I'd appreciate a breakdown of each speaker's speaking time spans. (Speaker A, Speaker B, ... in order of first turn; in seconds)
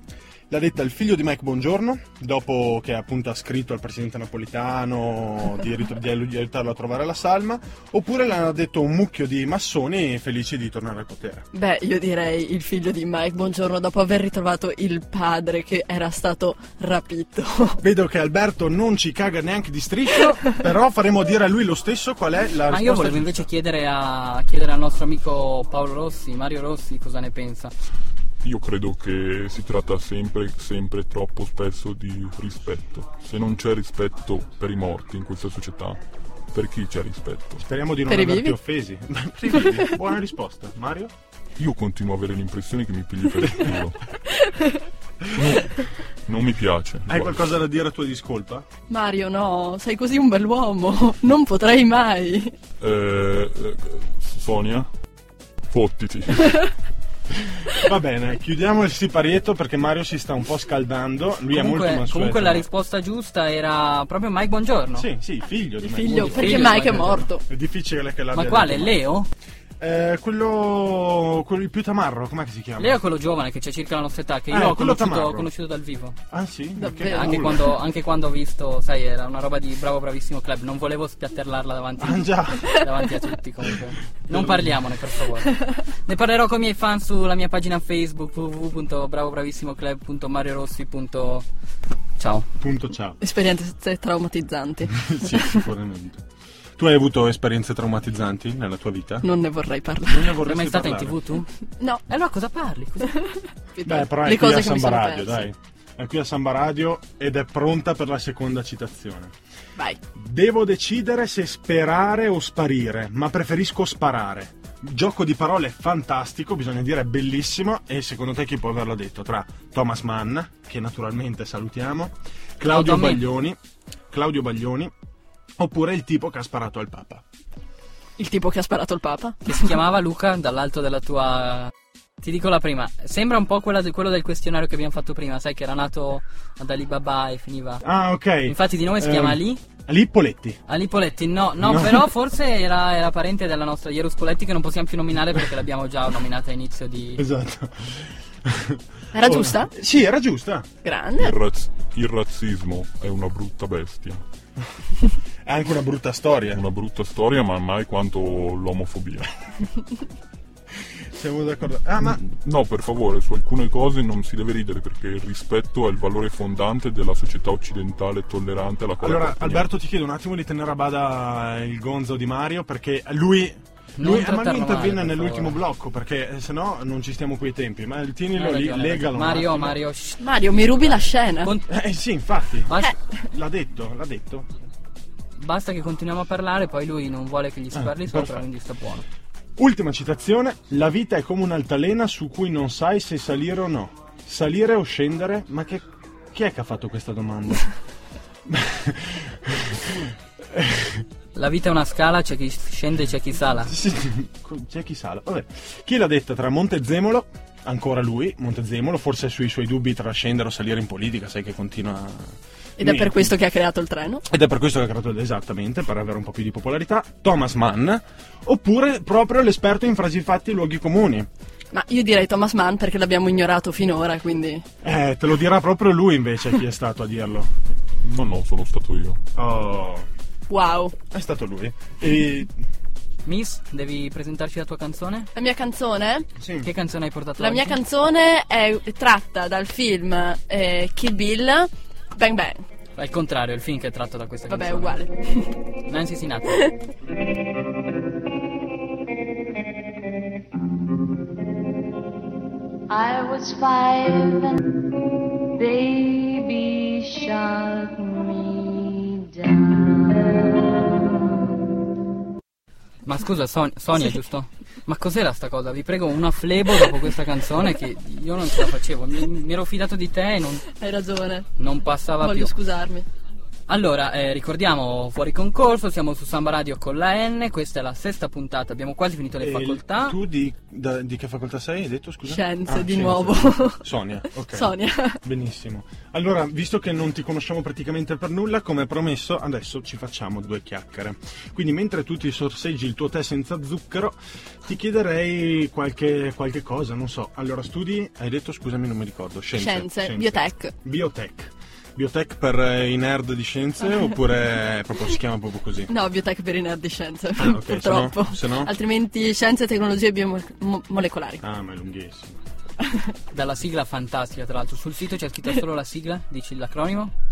Speaker A: 0.5-11.5, 17.8-23.5, 37.6-41.1, 45.2-45.6, 47.1-48.6, 57.3-62.6, 64.9-69.0, 69.8-73.0, 74.5-75.5, 76.3-77.7, 82.0-82.8, 84.3-84.7, 92.6-93.2, 94.9-96.2, 96.8-99.3, 100.1-101.2, 103.8-109.3, 110.1-123.6, 124.1-124.9, 125.6-127.2, 137.8-140.6, 141.6-142.1, 147.2-150.7, 155.4-156.6, 161.1-162.2, 169.0-179.8, 181.7-184.5, 187.7-188.4, 189.6-197.7, 198.4-201.1, 203.7-213.3, 214.3-221.3, 224.8-227.5, 229.3-230.1, 231.1-232.5, 236.4-236.7, 279.4-305.9, 307.4-308.7, 311.4-312.4
Speaker B: 11.5-17.8, 38.1-38.5, 44.3-44.9, 48.9-52.5, 65.9-67.4, 76.8-77.6, 93.2-95.6, 99.2-100.3, 103.1-105.5, 128.2-129.7, 149.1-149.7, 150.8-151.3, 180.2-181.6, 212.8-214.2, 221.7-224.6, 230.5-230.9, 235.3-236.3, 237.4-242.6, 244.5-245.5, 270.7-271.5, 272.2-273.1, 282.3-283.8, 284.5-285.2, 299.5-300.7, 305.9-311.4, 312.8-313.1
Speaker C: 22.7-27.7, 61.5-65.1, 66.2-67.2, 68.3-69.3, 72.8-76.2, 77.0-85.5, 86.0-91.5, 92.2-92.5, 100.4-101.5, 102.1-103.1, 122.7-123.2, 129.4-137.8, 138.5-139.6, 140.7-147.2, 174.0-175.6, 178.3-181.7, 182.7-182.9, 185.4-189.0, 201.3-203.7, 233.2-235.3, 236.6-237.8, 242.9-244.9, 245.9-246.7, 263.0-270.6, 271.6-272.5, 273.7-280.2, 313.3-317.1
Speaker D: 28.4-36.0, 36.5-37.6, 41.6-44.0, 45.3-47.4, 52.8-54.9, 55.7-56.7, 151.2-154.2, 156.5-159.3, 162.1-169.7, 228.0-229.2
Speaker E: 252.9-254.6, 255.6-261.3